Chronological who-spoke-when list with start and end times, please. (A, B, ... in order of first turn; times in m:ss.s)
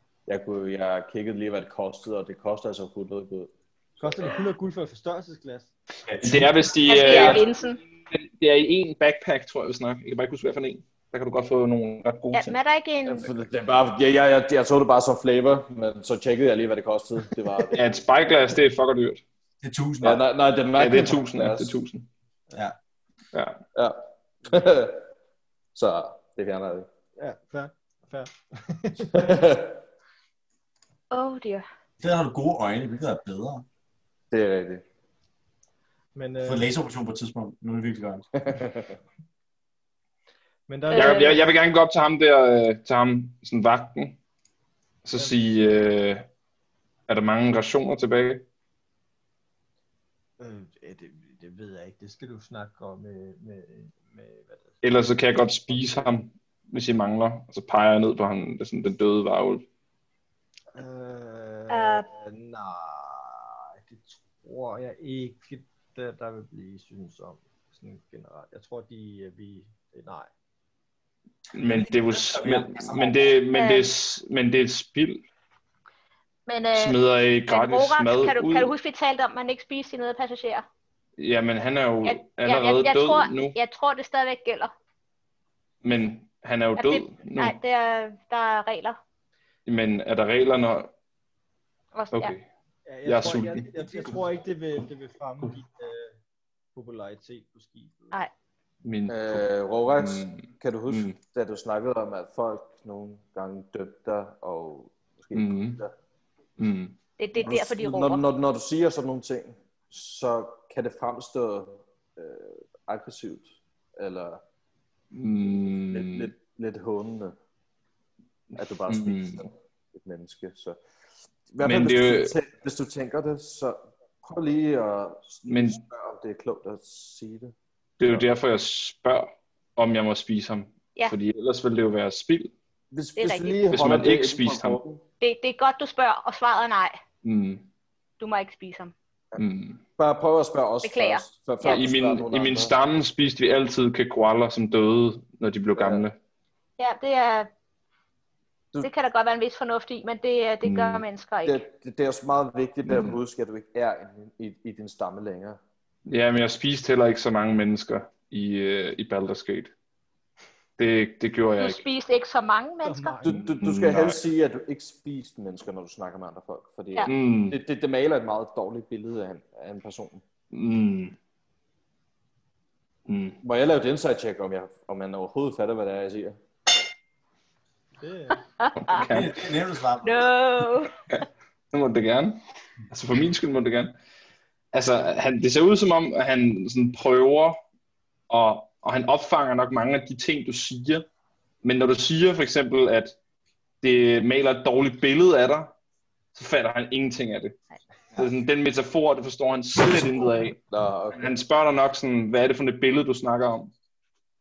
0:00.3-0:04.2 A
0:04.0-0:05.7 B
0:06.1-0:06.5 C
0:06.2-0:07.5 D
0:06.9-0:07.8 E
0:08.1-0:12.6 D
0:12.3-0:13.3 E
0:13.1-0:17.8 A
0:17.7-0:19.2 D
0:19.6-0:20.2 C
0:20.0-0:21.8 A
0:20.8-0:22.1 D
0:23.3-0:23.6 D
0:23.8-0:25.0 A
0:25.8-0:26.9 A
0:27.2-0:29.4 B
0:29.1-0:29.8 A
0:31.1-0:31.7 E
0:32.0-0:33.6 C
0:34.3-0:34.8 A
0:36.2-0:36.7 B
0:36.4-0:38.3 C
0:38.4-0:38.9 A
0:40.7-0:41.5 B
0:40.9-0:41.4 E
0:40.9-0:44.2 D
0:45.0-0:46.3 D
0:47.1-0:48.4 D
0:50.4-0:54.8 B
0:54.8-0:59.6 D
0:55.7-0:56.1 B
1:00.8-1:10.3 B
1:01.7-1:02.1 E
1:11.5-1:15.2 D
1:11.6-1:13.3 C
1:13.5-1:13.9 E
1:16.5-1:20.7 E
1:16.8-1:18.7 D
1:21.2-1:23.6 D
1:22.0-1:24.7 E
1:25.8-1:27.6 D
1:26.8-1:29.0 E
1:29.7-1:30.9 D
1:32.0-1:32.4 E
1:32.1-1:32.4 D
1:32.9-1:36.1 B
1:33.1-1:34.2 D
1:36.8-1:38.2 B
1:38.8-1:39.4 D
1:39.1-1:45.9 A
1:40.0-1:41.2 D
1:45.3-1:45.8 D
1:46.6-1:47.0 D
1:47.2-1:48.2 E
1:47.4-1:54.4 A
1:55.1-1:56.3 D
1:55.9-1:57.4 A
1:58.6-2:00.8 A
1:58.9-1:59.4 D
2:01.5-2:07.5 A
2:01.6-2:02.3 D
2:05.5-2:05.8 D
2:08.0-2:12.5 D
2:12.9-2:15.0 A
2:13.2-2:13.6 E
2:13.7-2:14.8 D
2:15.2-2:17.0 E
2:17.2-2:17.6 D
2:18.2-2:18.9 E
2:19.4-2:19.8 D
2:20.0-2:22.7 A
2:20.8-2:21.8 E
2:21.6-2:26.2 D
2:25.8-2:26.0 A
2:26.8-2:27.5 E
2:28.8-2:31.6 E
2:30.6-2:31.0 D
2:31.4-2:35.6 A
2:32.8-2:33.2 D
2:36.1-2:39.7 D
2:40.8-2:41.8 D
2:41.6-2:43.2 E
2:42.8-2:43.4 B
2:43.2-2:50.2 A
2:43.3-2:44.2 D
2:47.1-2:47.6 D
2:50.5-2:51.2 D
2:53.1-2:53.4 D
2:53.4-2:56.4 A
2:58.0-2:58.4 B
2:58.6-2:59.0 E
2:58.8-2:59.3 D
2:59.0-3:00.3 C
3:00.0-3:00.9 E
3:01.1-3:03.9 D
3:04.7-3:07.6 D
3:08.3-3:11.1 D
3:11.6-3:13.2 D
3:13.8-3:15.7 D
3:16.3-3:17.6 D
3:18.1-3:20.6 D
3:19.9-3:20.2 A
3:20.7-3:21.3 A
3:21.1-3:23.7 D